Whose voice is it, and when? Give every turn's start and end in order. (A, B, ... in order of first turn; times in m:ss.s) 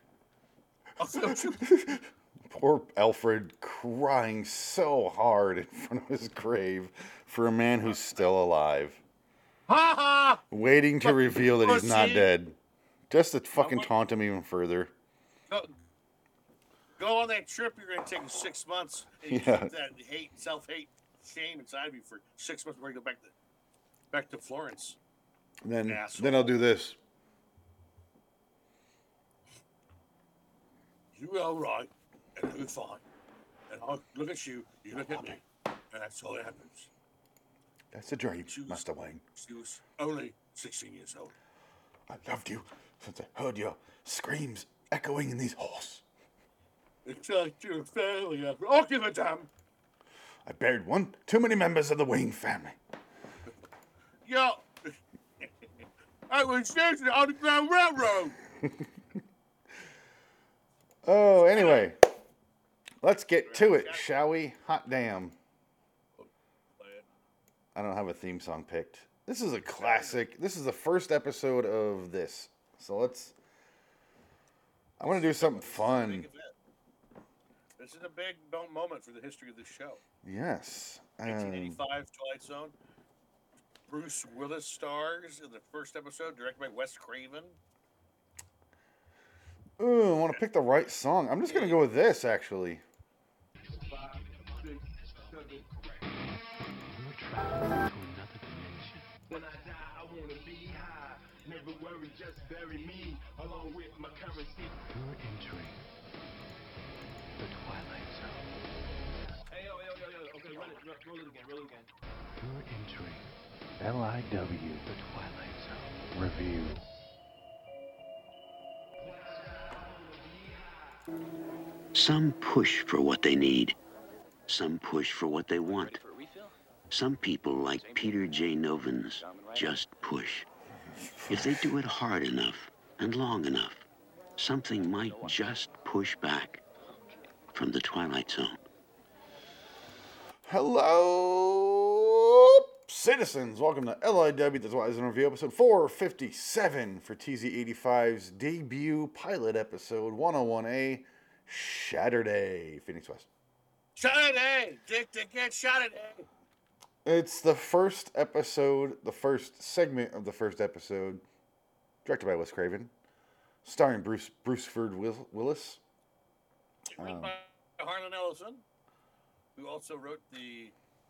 0:01.0-0:01.6 A
0:01.1-0:09.0 B
0:07.8-0:08.3 A
0:09.7-0:10.4 A
0:10.5-0:12.6 B
0:11.0-0:12.3 A
0:13.1-0:14.9 B
0:13.6-0:13.9 A
0:15.5-0:15.8 A
0:17.0-0:23.3 A
0:19.3-0:19.7 B
0:24.1-0:25.0 A
0:25.6-0:27.0 B
0:25.9-0:26.6 A
0:31.1-0:33.0 A
0:33.7-0:35.4 A
0:34.9-0:35.4 B
0:35.9-0:36.9 A
0:37.9-0:39.2 B
0:38.5-0:41.4 A
0:42.1-0:46.0 B
0:47.0-0:49.5 A
0:50.4-0:52.8 B
0:54.2-0:55.7 A
0:56.3-0:58.4 A
1:01.0-1:02.0 B
1:01.5-1:01.9 A
1:03.0-1:05.4 B
1:03.4-1:04.1 A
1:06.2-1:07.0 A
1:07.8-1:13.4 B
1:09.8-1:10.2 A
1:15.0-1:16.3 B
1:15.0-1:16.5 A
1:17.8-1:20.0 A
1:20.2-1:21.8 B
1:21.2-1:22.8 A
1:23.9-1:27.6 A
1:29.8-1:32.8 B
1:31.5-1:31.8 A
1:33.6-1:36.1 C
1:36.8-1:39.1 D
1:39.3-1:44.9 C
1:44.9-1:45.8 D
1:47.4-1:48.5 D
1:49.1-1:51.9 C
1:52.4-1:53.3 D
1:53.8-1:56.8 D
1:59.0-2:01.0 C
2:01.9-2:03.8 E
2:04.5-2:06.1 E
2:06.9-2:10.5 E
2:11.1-2:11.7 B
2:11.3-2:13.9 E
2:14.4-2:16.6 E
2:17.5-2:18.6 E
2:20.4-2:33.3 B
2:34.0-2:36.3 A
2:37.0-2:41.2 B
2:42.0-2:42.9 B
2:43.6-2:45.8 B
2:46.9-2:48.6 A
2:47.0-2:47.3 B
2:49.6-2:50.8 A